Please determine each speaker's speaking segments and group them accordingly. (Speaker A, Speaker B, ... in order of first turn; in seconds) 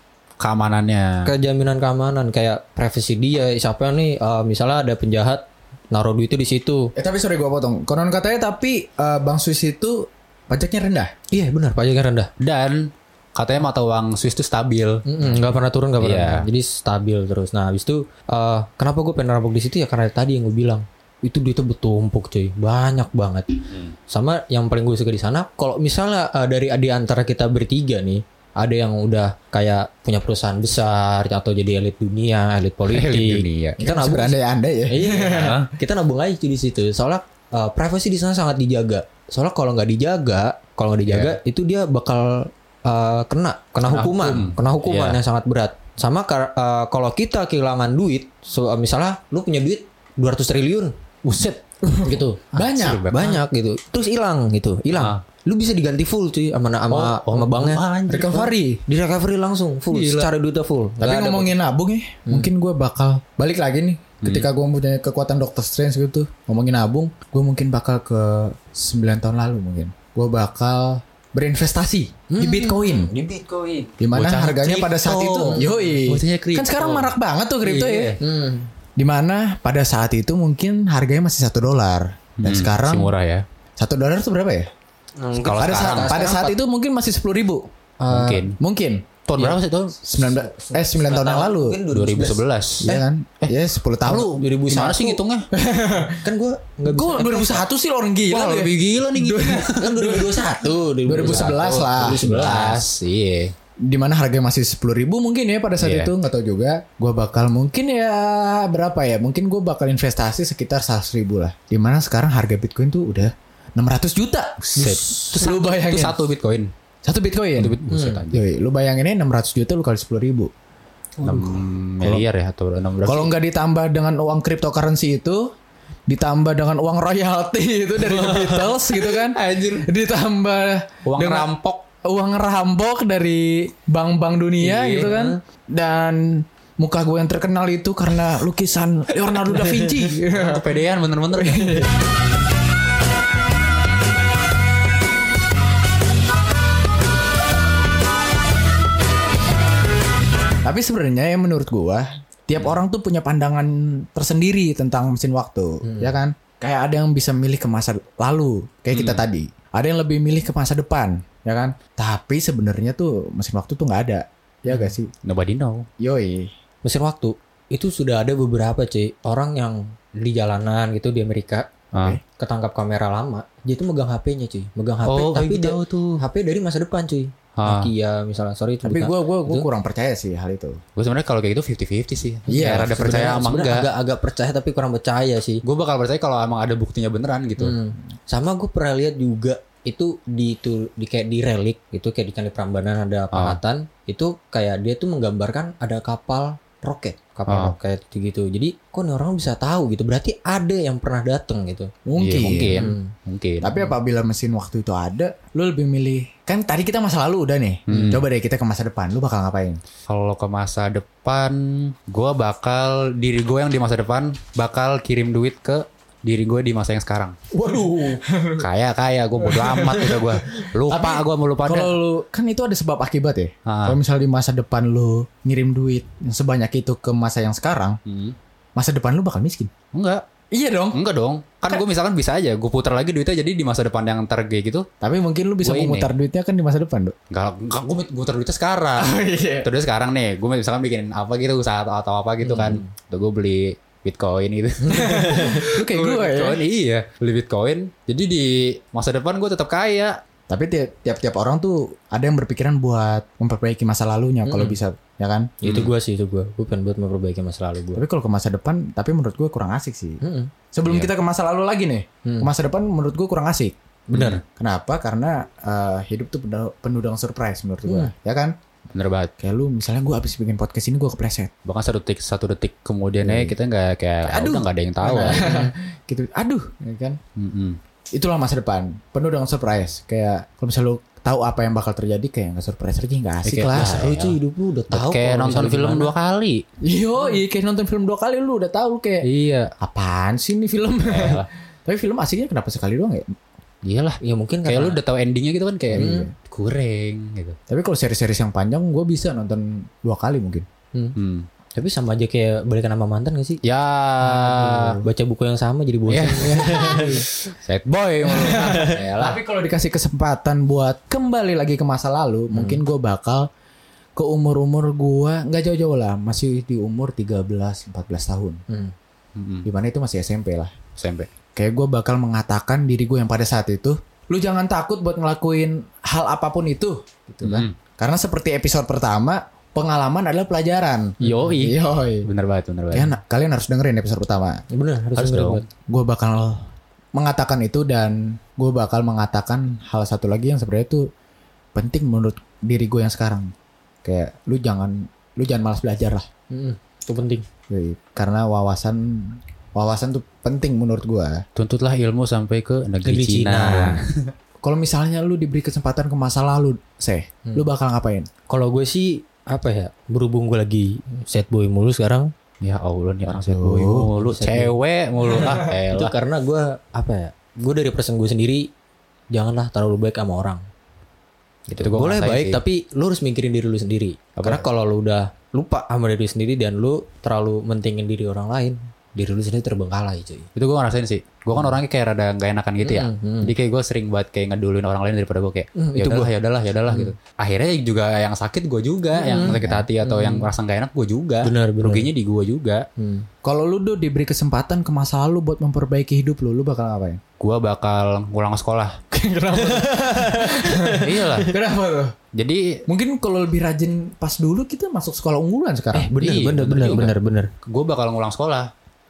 Speaker A: 0.4-1.3, 12.4-16.5, 32.9-33.8, 35.2-35.7, 41.1-41.4, 43.9-45.2, 52.5-53.4, 55.0-55.2, 56.9-58.5, 59.9-60.3, 64.2-64.5, 74.0-78.2, 82.4-83.4, 85.4-86.3, 88.1-88.6, 89.3-90.0, 91.9-95.5, 98.3-100.2, 101.2-103.5, 105.8-106.1, 114.7-116.7, 117.6-118.4, 121.2-123.3, 129.1-129.9, 131.1-131.8, 134.9-135.2, 140.2-141.9, 158.9-159.2, 165.2-165.9, 171.9-172.2, 175.1-176.2, 177.6-177.9, 181.0-183.9, 185.6-187.8, 193.3-193.6, 197.5-197.8, 202.2-203.8, 207.9-208.3, 210.1-217.4, 218.6-222.0, 223.7-224.0, 228.1-228.4, 229.9-230.2, 230.9-234.9, 235.6-236.1, 237.3-250.2, 255.6-255.9, 260.9-261.1, 264.1-264.4, 268.9-269.3, 271.6-275.5, 277.4-277.8, 283.4-284.4, 284.9-286.6, 289.2-289.7, 291.1-291.5, 293.9-297.6, 301.2-301.5, 303.6-305.0, 306.1-309.4, 319.4-319.7, 321.0-321.3, 327.4-327.7, 331.2-333.1, 335.2-335.6, 351.6-354.3, 362.6-366.1, 371.8-372.6, 374.4-374.7, 380.6-392.9, 397.4-399.0, 401.0-401.5, 402.3-402.8, 406.2-408.7
Speaker B: 1.2-6.9, 11.3-12.3, 15.1-51.0, 52.0-52.4, 53.1-61.5, 72.3-73.9, 75.4-75.9, 78.2-78.7, 85.2-86.6, 88.0-88.5, 90.2-93.0, 94.1-95.2, 96.2-97.6, 99.8-102.8, 117.9-118.2, 128.1-128.7, 134.6-135.4, 155.8-156.1, 166.8-171.7, 172.4-179.7, 182.5-185.6, 187.6-201.9, 202.7-203.1, 242.4-242.9, 244.9-245.6, 254.5-254.8, 255.6-258.0, 260.2-260.5, 262.2-262.5, 264.1-264.4, 267.9-268.1, 275.2-275.7, 283.7-286.1, 294.2-295.0, 295.9-296.3, 301.8-303.6, 304.3-307.2, 308.4-309.0, 312.5-312.8, 331.2-331.5, 334.7-335.7, 346.5-347.4, 353.0-354.0, 358.5-362.3, 364.1-364.7, 365.3-368.7, 369.3-370.6, 371.7-380.5, 382.8-383.5, 385.8-386.3, 386.9-387.1, 389.1-390.5, 391.4-392.1, 393.0-393.3, 399.6-401.4, 405.9-407.5
Speaker C: 7.0-11.1, 33.8-35.4, 51.8-53.1, 58.1-58.8, 61.0-73.1, 74.0-78.2, 79.0-83.1, 83.8-84.7, 85.5-87.7, 88.5-89.1, 90.0-91.8, 92.8-94.3, 95.5-96.3, 96.9-102.7, 103.8-116.2, 117.0-117.8, 118.3-120.5, 121.2-122.2, 123.0-125.5, 126.1-131.5, 132.0-140.7, 141.3-141.9, 150.6-165.1, 166.0-166.5, 172.0-172.2, 178.8-180.8, 182.5-183.1, 202.1-202.9, 203.6-209.8, 217.5-218.7, 219.4-228.0, 228.8-229.7, 230.5-231.0, 235.0-237.2, 239.0-239.7, 244.9-246.6, 250.5-255.5, 257.9-260.2, 260.7-263.8, 264.5-268.6, 269.4-271.5, 273.2-273.6, 274.2-277.2, 278.1-284.1, 286.8-289.3, 289.8-293.3, 295.9-296.3, 297.7-300.7, 304.5-305.0, 306.4-307.3, 308.3-313.5, 314.2-318.6, 319.6-320.8, 321.6-332.3, 332.9-334.6, 335.9-341.1, 341.8-343.5, 344.0-346.2, 347.7-351.4, 354.6-358.3, 363.3-364.1, 389.4-389.8, 393.4-397.2, 399.1-402.2, 402.9-406.1